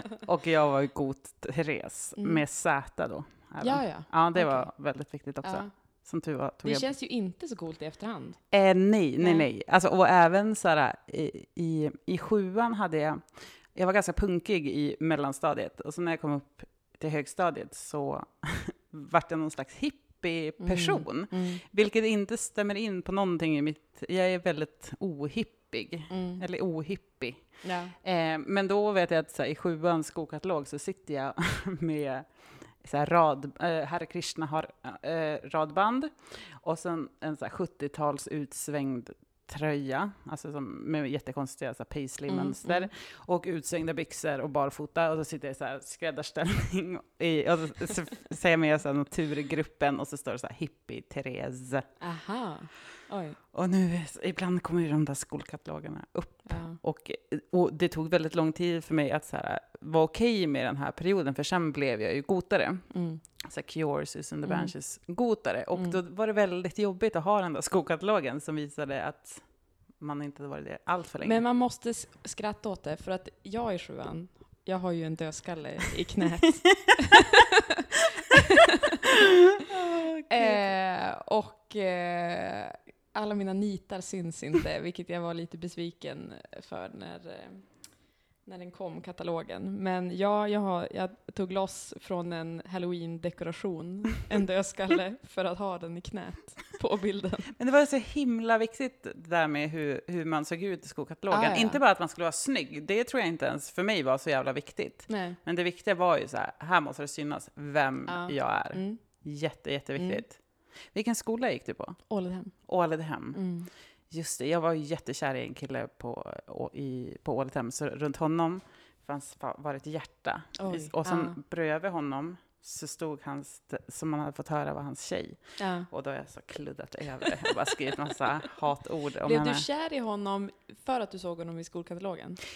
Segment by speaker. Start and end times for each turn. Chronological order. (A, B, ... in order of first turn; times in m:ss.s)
0:00.2-0:06.9 A
0:02.2-0:02.9 B
0:03.6-0:06.1 B
0:06.6-0:08.5 B
0:08.5-0:52.0 A
0:09.2-0:09.5 B
0:20.6-0:21.6 B
0:26.1-0:26.4 B
0:27.6-0:28.0 B
0:42.3-0:42.9 B
0:52.0-0:53.4 B
0:53.5-1:11.4 A
0:56.5-0:56.8 B
1:02.9-1:03.2 B
1:04.4-1:06.0 B
1:11.2-1:17.4 B
1:19.7-1:20.8 A
1:20.3-1:37.5 B
1:37.6-2:09.6 A
1:41.3-1:41.8 B
1:45.1-1:45.4 B
1:48.1-1:49.2 B
1:50.0-1:50.2 B
1:52.1-1:53.7 B
2:00.6-2:01.4 B
2:05.6-2:05.9 B
2:09.2-2:12.4 B